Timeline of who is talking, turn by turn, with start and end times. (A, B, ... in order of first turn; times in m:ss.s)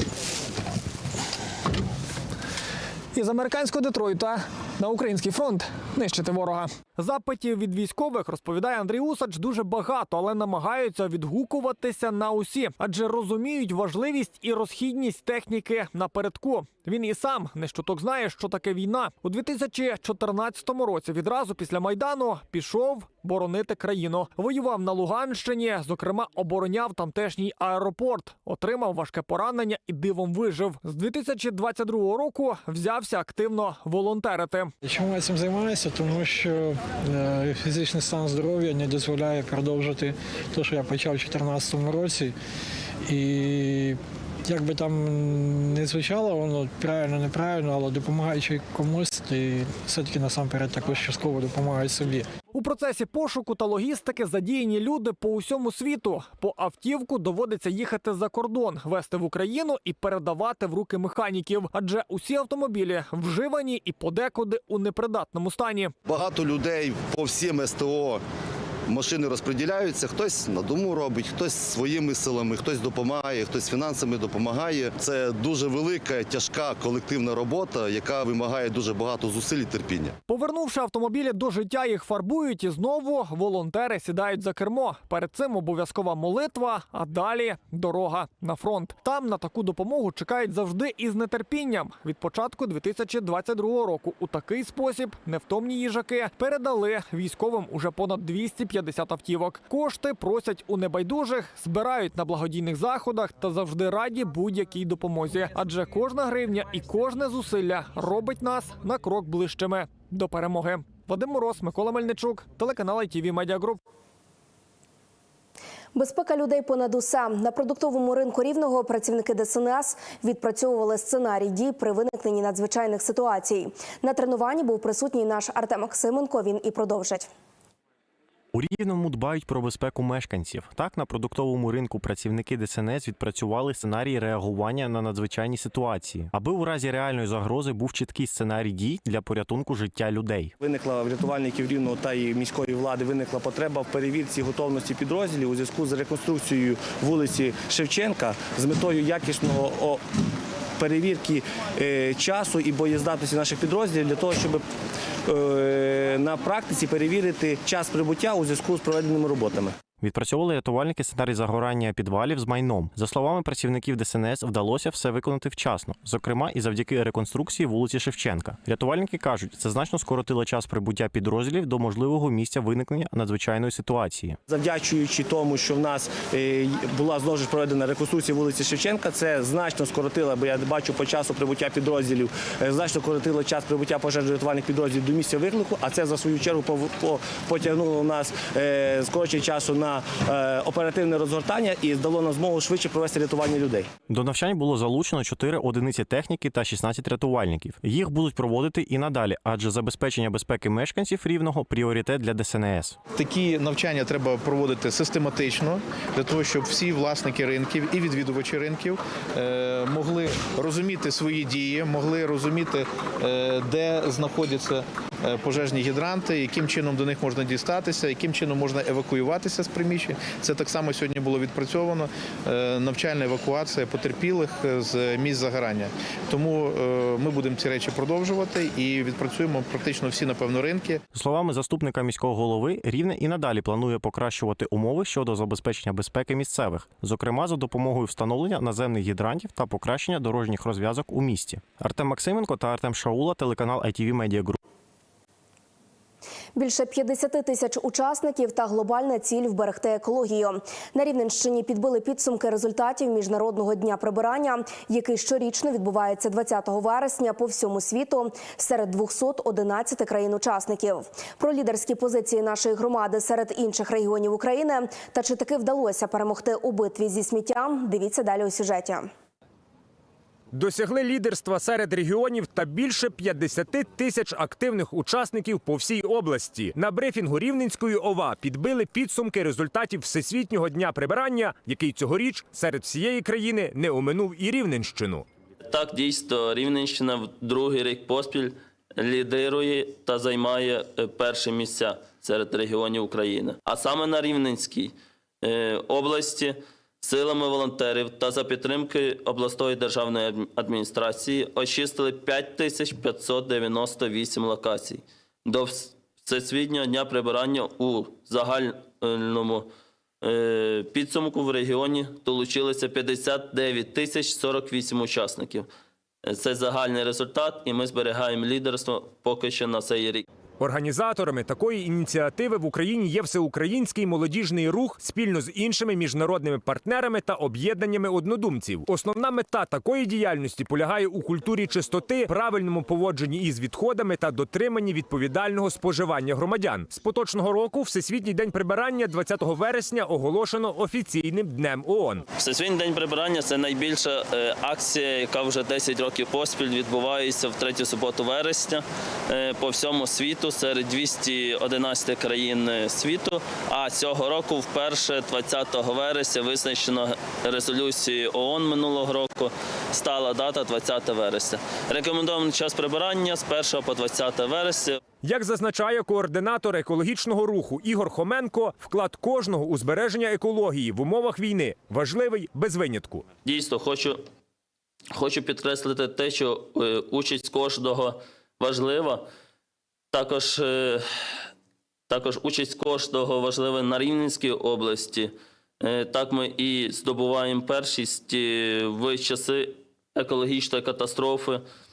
0:03.1-0:34.7 A
0:34.8-0:42.4 B
0:43.1-0:52.3 B
0:52.5-1:05.9 A
1:06.1-1:08.2 C
1:08.9-1:20.2 C
1:20.3-1:53.8 A
1:56.0-2:07.3 D
2:08.5-2:20.5 E
2:20.6-2:30.0 F
2:30.8-2:34.6 F
2:35.3-2:39.8 F
2:40.0-2:54.4 E
2:54.5-3:13.9 F
3:14.1-3:23.0 E
3:23.1-3:51.0 G
3:51.1-4:04.6 E
4:06.6-4:29.1 D
4:30.5-4:45.3 H
4:45.7-5:09.7 I
5:10.2-5:15.7 I
5:16.2-5:20.3 I
5:20.6-5:42.2 H
5:42.4-6:05.0 I
6:05.2-6:13.3 H
6:13.4-6:14.2 I
6:15.1-6:19.3 I
6:20.1-6:21.4 I
6:22.1-6:31.6 I